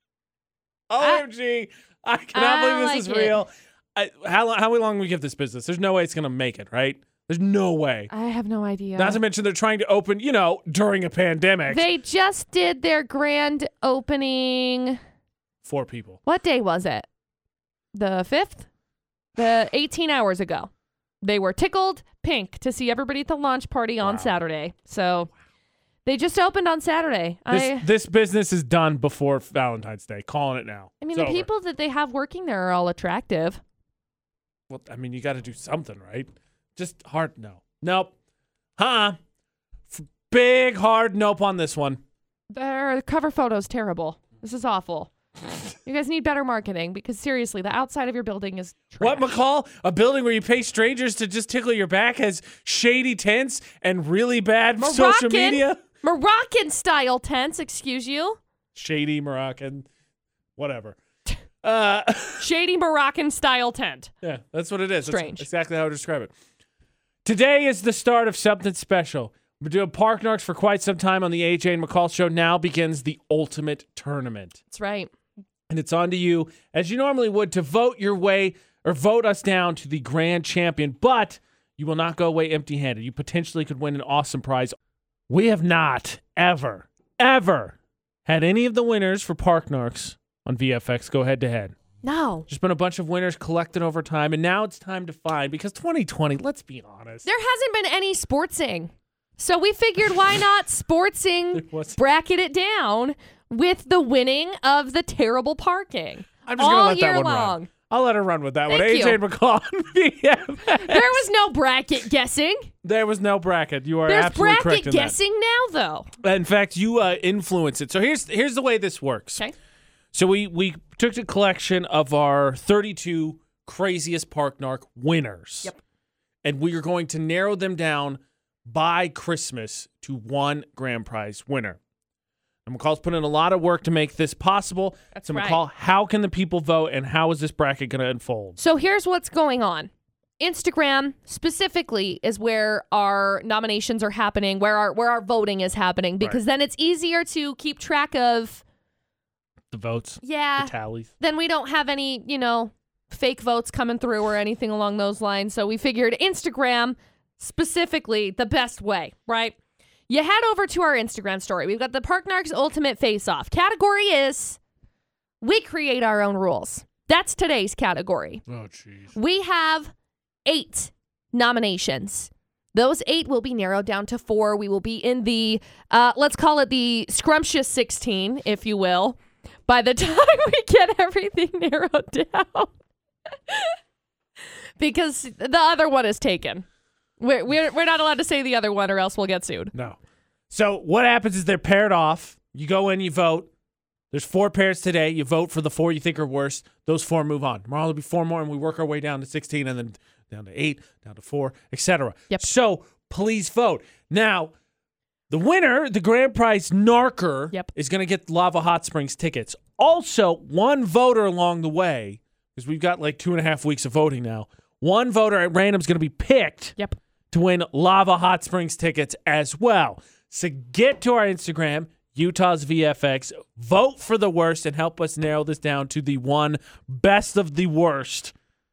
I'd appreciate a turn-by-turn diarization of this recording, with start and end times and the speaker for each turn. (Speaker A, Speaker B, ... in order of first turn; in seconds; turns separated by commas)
Speaker A: 0.9-8.1, Speaker B: 2.3-3.4, Speaker B: 8.1-9.2, Speaker A: 8.9-11.8, Speaker B: 11.7-15.0, Speaker A: 15.6-16.2, Speaker B: 16.2-17.1, Speaker B: 17.9-18.6, Speaker B: 19.4-20.7, Speaker B: 21.2-25.3, Speaker A: 24.0-24.3, Speaker B: 26.0-27.9, Speaker A: 27.5-31.5, Speaker B: 31.0-33.6, Speaker A: 34.7-38.1, Speaker A: 38.8-39.2, Speaker A: 39.9-42.0, Speaker B: 42.5-45.1, Speaker B: 45.8-49.3, Speaker A: 49.0-55.8, Speaker B: 54.8-58.4, Speaker A: 58.7-59.9, Speaker A: 60.6-61.0, Speaker A: 61.6-62.5, Speaker B: 62.4-64.1, Speaker A: 64.2-66.3, Speaker B: 65.1-65.4, Speaker A: 67.2-74.6, Speaker B: 74.7-75.1, Speaker A: 75.7-84.8, Speaker A: 85.3-87.7, Speaker A: 88.2-91.8, Speaker B: 92.0-92.5, Speaker A: 92.5-97.3, Speaker B: 97.2-107.7, Speaker A: 101.5-102.0, Speaker A: 106.5-111.2, Speaker B: 108.7-109.2, Speaker B: 110.8-112.7, Speaker A: 112.8-115.2, Speaker B: 114.1-116.1, Speaker A: 116.2-119.4, Speaker A: 120.1-125.7, Speaker A: 126.4-131.8, Speaker A: 132.7-138.6, Speaker B: 135.1-135.6, Speaker B: 138.6-148.6, Speaker A: 149.7-151.1, Speaker B: 150.2-159.5, Speaker B: 160.1-164.6, Speaker B: 165.4-168.4, Speaker A: 168.5-169.1, Speaker B: 169.1-169.9, Speaker B: 170.4-179.2, Speaker B: 179.7-182.7, Speaker B: 183.5-183.8, Speaker B: 184.8-186.7, Speaker B: 187.2-189.7, Speaker A: 190.5-193.5, Speaker A: 194.1-204.5, Speaker A: 205.3-216.7, Speaker A: 217.3-228.3